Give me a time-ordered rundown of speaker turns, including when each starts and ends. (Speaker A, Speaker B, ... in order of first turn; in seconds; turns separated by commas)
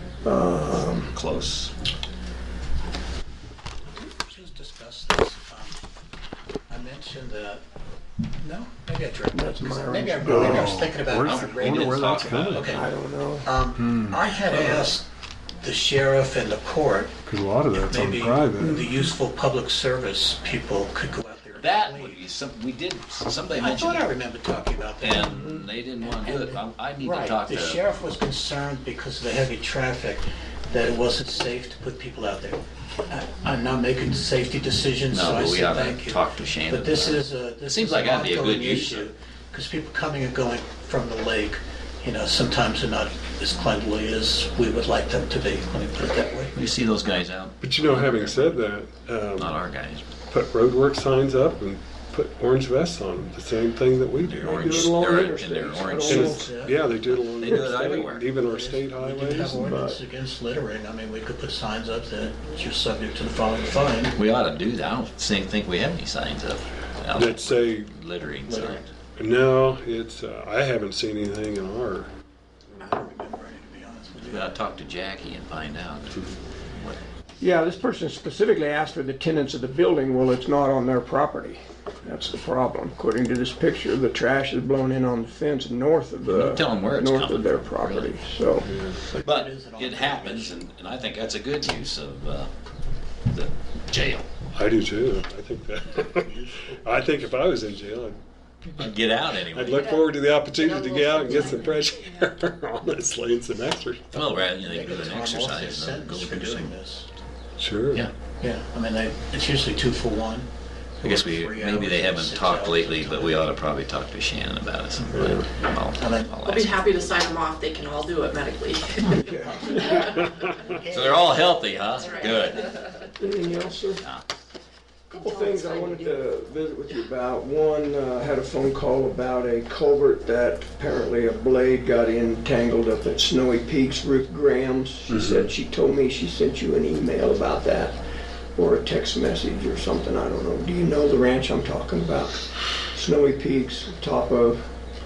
Speaker A: 0.2-1.1, Speaker B: 1.1-1.7, Speaker C: 4.0-5.8, Speaker C: 6.7-7.6, Speaker C: 8.4-12.9, Speaker A: 9.3-10.8, Speaker D: 10.2-12.7, Speaker B: 11.2-12.7, Speaker A: 12.7-13.5, Speaker C: 13.4-15.0, Speaker D: 13.8-14.9, Speaker C: 15.6-22.3, Speaker D: 17.2-18.9, Speaker B: 21.6-24.1, Speaker C: 23.5-46.8, Speaker B: 25.0-27.8, Speaker B: 35.1-39.1, Speaker B: 46.5-48.6, Speaker D: 47.6-49.6, Speaker B: 49.4-50.1, Speaker D: 50.3-55.0, Speaker B: 54.2-58.3, Speaker A: 54.4-56.5, Speaker D: 56.0-59.6, Speaker C: 56.1-56.9, Speaker C: 58.4-64.2, Speaker A: 59.5-60.0, Speaker B: 64.1-68.8, Speaker D: 67.1-67.9, Speaker C: 68.5-68.8, Speaker D: 69.2-72.1, Speaker C: 72.8-74.7, Speaker B: 74.2-77.0, Speaker A: 77.4-88.7, Speaker B: 86.2-88.2, Speaker D: 88.6-89.0, Speaker C: 89.1-90.6, Speaker B: 89.2-92.5, Speaker B: 93.3-94.3, Speaker D: 94.5-98.2, Speaker C: 96.2-97.3, Speaker D: 98.8-104.4, Speaker B: 98.8-99.9, Speaker E: 99.8-100.0, Speaker E: 100.6-101.8, Speaker B: 104.1-106.7, Speaker C: 104.6-107.1, Speaker D: 107.6-108.1, Speaker C: 108.4-110.5, Speaker C: 111.0-113.5, Speaker B: 111.0-116.8, Speaker D: 115.1-115.5, Speaker C: 116.0-116.3, Speaker E: 116.4-119.2, Speaker A: 119.1-120.3, Speaker E: 119.8-120.1, Speaker C: 120.4-121.5, Speaker B: 120.9-122.8, Speaker E: 122.0-122.8, Speaker A: 123.2-124.0, Speaker B: 124.0-124.2, Speaker A: 125.1-137.9, Speaker E: 125.2-126.2, Speaker D: 135.1-135.5, Speaker A: 138.6-144.6